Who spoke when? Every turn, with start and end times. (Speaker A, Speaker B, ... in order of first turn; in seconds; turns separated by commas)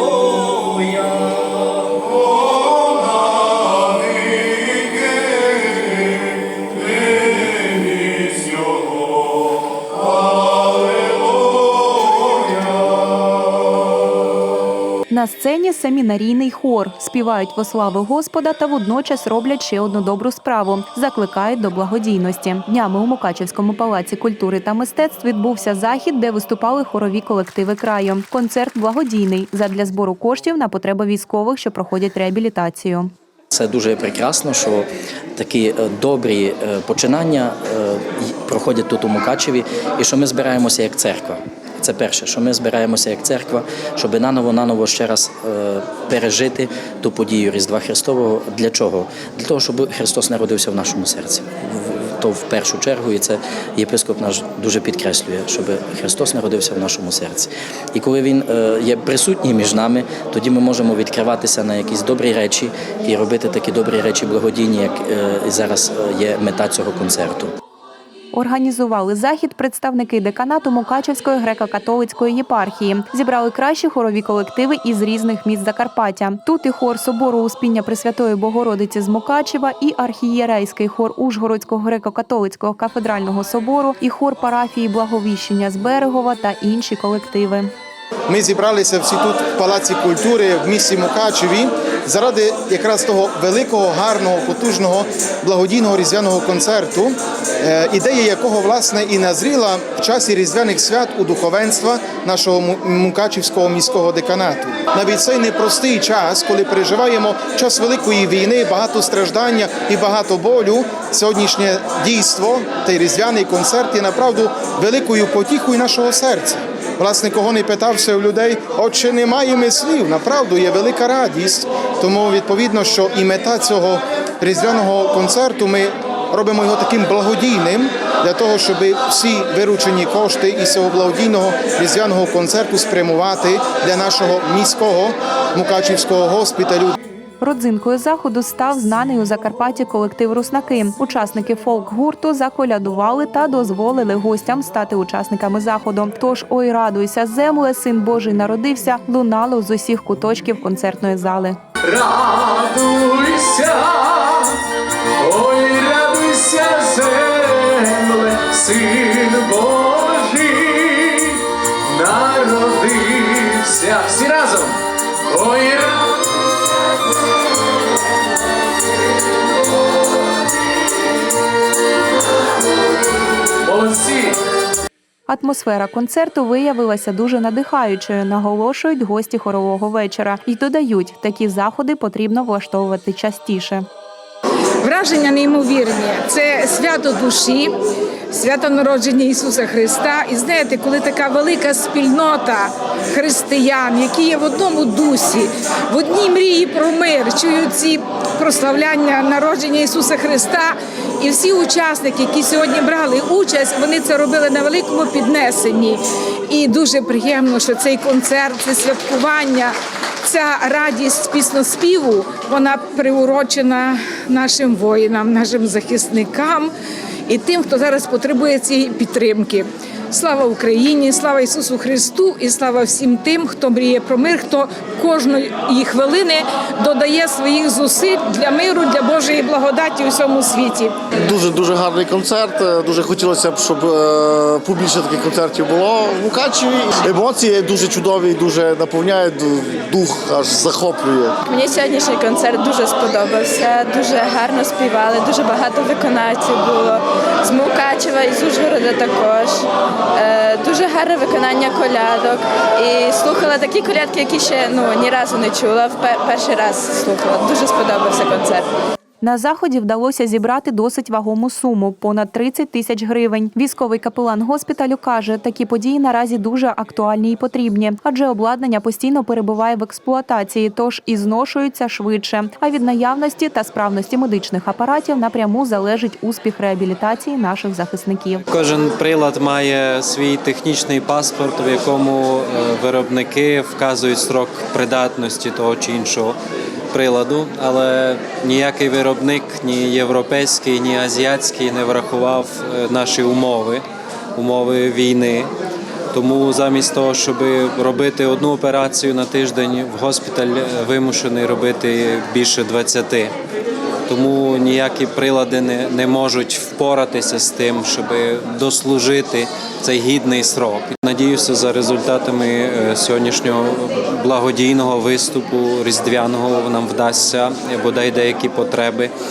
Speaker A: 15.1-33.1, Speaker B: 33.5-67.5, Speaker A: 68.3-87.7, Speaker C: 88.3-136.9, Speaker A: 137.4-151.6, Speaker D: 151.9-154.4, Speaker D: 155.2-161.3, Speaker D: 161.9-164.7, Speaker D: 165.3-165.9, Speaker D: 173.7-174.2, Speaker A: 175.3-183.8, Speaker E: 184.8-187.8, Speaker E: 188.3-216.7, Speaker E: 217.3-230.9, Speaker F: 231.2-241.3, Speaker G: 241.4-249.6, Speaker G: 250.2-258.7, Speaker A: 259.2-278.4, Speaker H: 278.5-286.4, Speaker H: 286.9-295.5, Speaker H: 296.1-303.3, Speaker H: 304.1-319.1